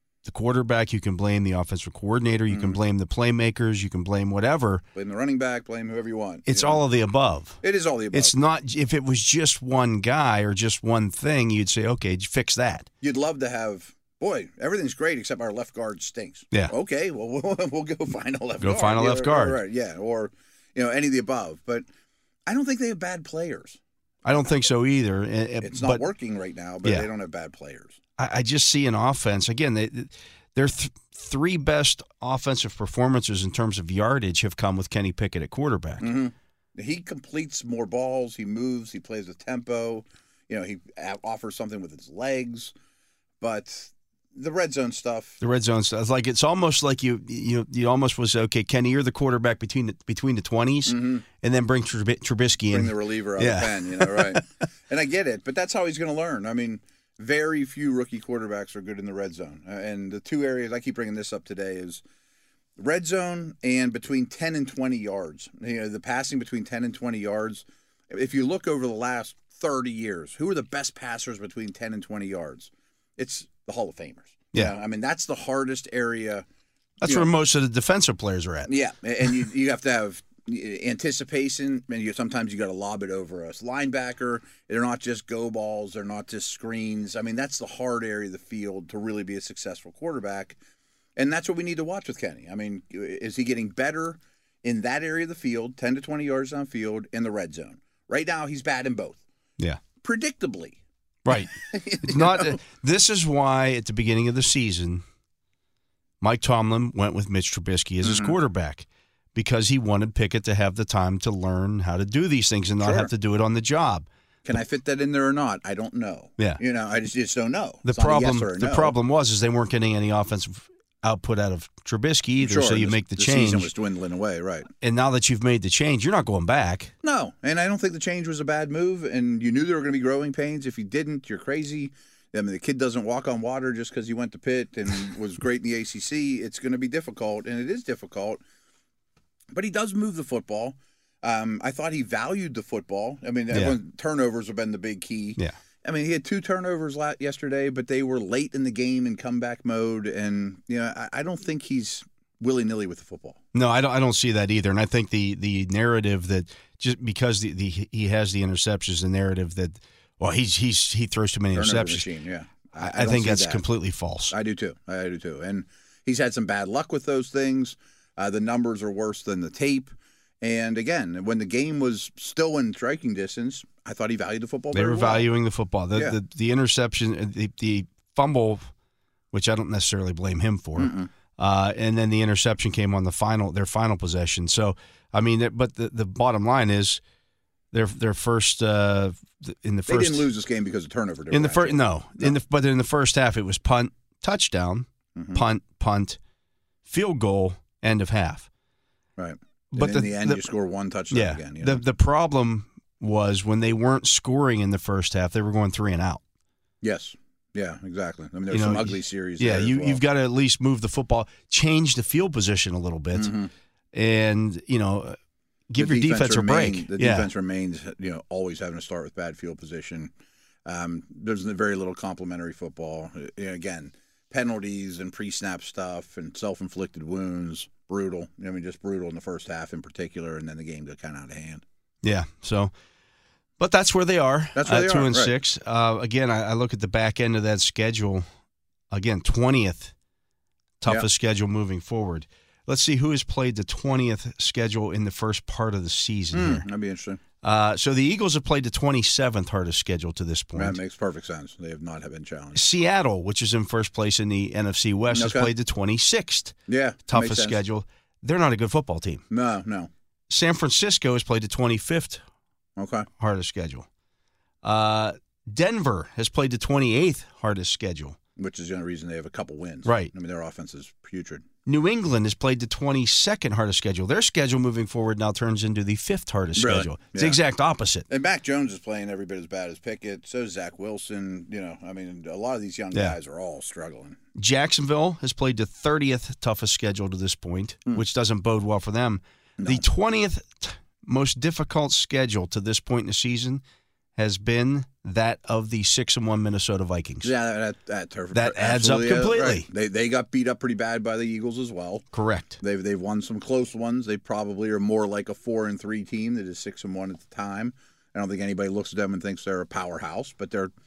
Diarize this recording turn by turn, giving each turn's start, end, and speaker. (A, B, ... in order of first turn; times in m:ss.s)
0:00.2-0:04.8 A
0:02.5-0:02.8 B
0:05.0-0:06.8 B
0:06.5-0:07.6 A
0:07.6-0:08.3 B
0:08.1-0:12.9 A
0:13.0-0:21.8 B
0:18.6-0:19.6 A
0:22.5-0:23.8 B
0:24.2-0:26.0 A
0:25.6-0:28.0 B
0:26.8-0:27.1 A
0:28.2-0:36.1 A
0:36.0-0:42.7 B
0:43.4-0:45.4 B
0:45.4-0:54.4 A
0:50.9-0:51.3 B
0:52.7-1:02.0 B
1:02.8-1:16.4 B
1:17.0-1:18.7 A
1:17.0-1:17.3 B
1:18.7-1:30.6 B
1:31.2-1:39.2 B
1:40.0-1:40.8 B
1:41.2-1:45.0 A
1:41.3-1:42.6 B
1:46.2-1:54.1 A
1:48.0-1:48.4 B
1:52.8-1:53.1 B
1:54.4-1:59.0 B
1:57.8-2:03.7 A
2:02.4-2:04.7 B
2:04.8-2:06.9 A
2:07.0-2:18.4 B
2:19.5-2:33.4 B
2:23.5-2:23.8 A
2:33.5-2:42.1 A
2:41.5-2:43.6 B
2:42.8-2:44.4 A
2:44.3-2:49.9 B
2:50.4-2:55.3 B
2:54.7-2:58.7 A
2:59.3-3:07.0 A
3:00.8-3:01.1 B
3:07.7-3:10.3 A
3:09.9-3:12.4 B
3:11.3-3:16.2 A
3:15.2-3:15.4 B
3:16.9-3:18.5 A
3:19.2-3:21.8 B
3:19.7-3:20.5 A
3:21.1-3:26.2 A
3:26.8-3:30.0 B
3:28.5-3:33.3 A
3:33.1-3:33.5 B
3:33.9-3:35.2 A
3:35.7-3:37.3 A
3:35.8-3:40.1 B
3:40.7-3:51.6 B
3:52.0-3:52.7 A
3:53.6-3:58.2 A
3:54.6-3:55.3 B
3:58.9-3:59.9 A
4:00.8-4:06.6 A
4:06.3-4:07.2 B
4:07.4-4:10.8 A
4:10.6-4:12.6 B
4:12.6-4:19.2 A
4:15.1-4:15.5 B
4:16.7-4:17.6 B
4:19.3-4:19.9 B
4:20.3-4:22.2 A
4:22.8-4:23.1 B
4:23.2-4:23.9 A
4:24.6-4:28.2 A
4:28.4-4:31.5 B
4:29.8-4:30.1 A
4:31.7-4:38.1 A
4:36.6-4:37.4 B
4:38.1-4:44.2 B
4:44.4-4:53.6 A
4:49.6-4:49.8 B
4:54.2-4:57.3 A
4:57.2-5:02.1 B
4:58.3-4:59.7 A
5:02.1-5:02.6 A
5:02.6-5:10.7 B